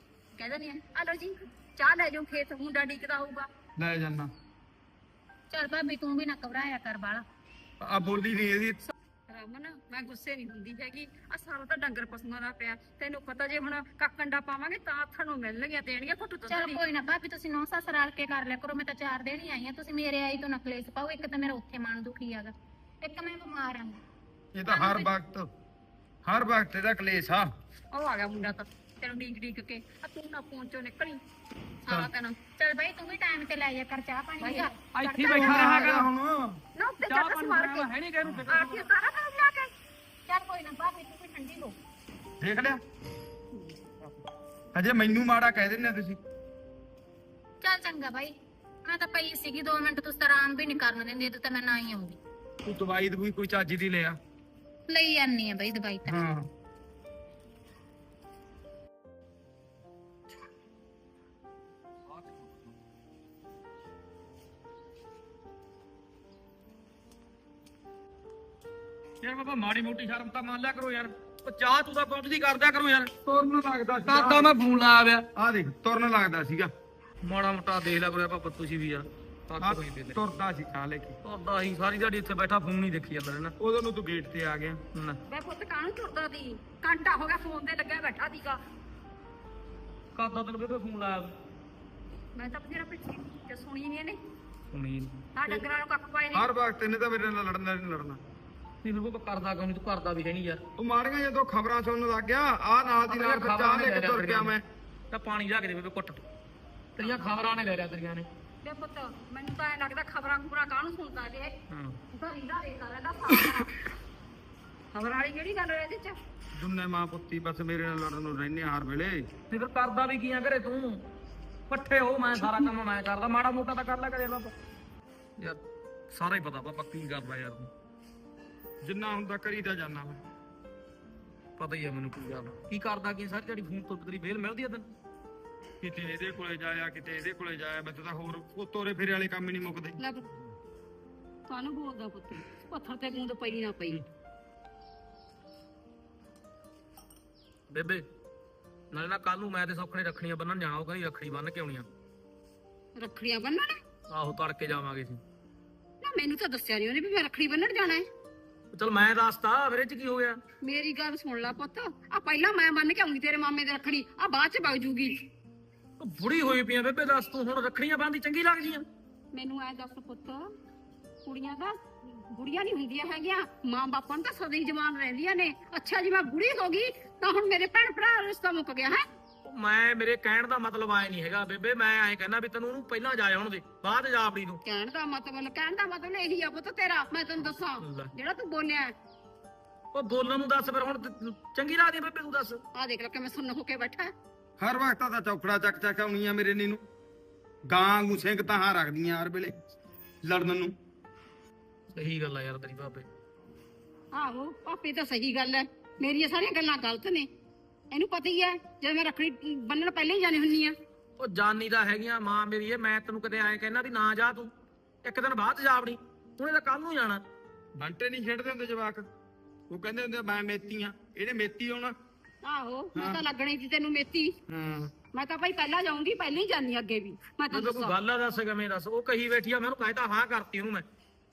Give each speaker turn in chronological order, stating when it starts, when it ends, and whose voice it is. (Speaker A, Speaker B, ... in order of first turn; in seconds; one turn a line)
Speaker A: 0.3-3.5
Speaker B: 3.8-4.3
Speaker C: 5.5-7.2
Speaker B: 7.8-8.8
Speaker A: 9.3-16.8
Speaker C: 16.5-24.0
Speaker B: 24.5-25.5
Speaker C: 24.6-25.1
Speaker B: 26.2-27.5
Speaker A: 27.9-31.2
Speaker A: 31.9-32.4
Speaker C: 31.9-34.8
Speaker A: 34.4-35.6
Speaker D: 34.9-36.1
Speaker B: 35.3-36.6
Speaker A: 36.8-37.9
Speaker D: 37.1-38.9
Speaker A: 38.5-39.7
Speaker C: 40.3-41.7
Speaker B: 42.4-42.8
Speaker B: 44.7-46.2
Speaker C: 47.6-48.3
Speaker C: 48.8-52.2
Speaker B: 52.6-54.2
Speaker C: 54.9-56.3
Speaker B: 56.0-56.5
Speaker D: 62.1-62.7
Speaker D: 69.2-73.1
Speaker B: 73.2-74.6
Speaker D: 74.0-75.2
Speaker B: 75.3-76.7
Speaker D: 77.2-80.2
Speaker B: 79.6-81.2
Speaker D: 81.2-83.5
Speaker B: 83.6-84.8
Speaker D: 84.9-85.2
Speaker A: 85.3-88.6
Speaker D: 90.2-91.3
Speaker A: 92.3-94.2
Speaker D: 94.7-95.3
Speaker A: 95.3-96.5
Speaker B: 96.3-98.2
Speaker D: 98.8-100.6
Speaker B: 100.8-104.6
Speaker D: 103.1-104.5
Speaker D: 105.1-106.2
Speaker D: 107.0-108.3
Speaker A: 108.6-111.5
Speaker D: 111.7-112.0
Speaker A: 112.1-113.7
Speaker A: 114.9-116.2
Speaker B: 116.6-119.3
Speaker D: 119.5-121.0
Speaker D: 121.7-124.5
Speaker D: 126.1-127.7
Speaker B: 128.8-130.2
Speaker D: 131.6-134.8
Speaker B: 135.8-140.0
Speaker A: 140.0-140.3
Speaker A: 141.5-144.0
Speaker D: 147.7-148.0
Speaker D: 148.9-151.9
Speaker A: 153.0-153.8
Speaker D: 154.1-155.2
Speaker A: 156.0-158.1
Speaker D: 158.7-160.4
Speaker A: 160.6-165.2
Speaker D: 166.0-168.8
Speaker A: 169.3-170.5
Speaker A: 171.2-179.0
Speaker D: 179.4-184.6
Speaker A: 184.6-188.9
Speaker D: 187.8-188.1
Speaker D: 189.9-192.6
Speaker A: 192.7-194.1
Speaker B: 194.6-196.8
Speaker B: 197.7-199.5
Speaker B: 200.2-200.7
Speaker D: 201.9-203.1
Speaker A: 204.1-207.3
Speaker A: 207.9-210.8
Speaker D: 211.2-214.5
Speaker D: 215.0-217.2
Speaker B: 217.8-219.1
Speaker B: 219.7-221.9
Speaker A: 222.4-224.3
Speaker B: 222.9-223.2
Speaker B: 224.5-224.9
Speaker A: 225.1-227.9
Speaker D: 227.5-230.8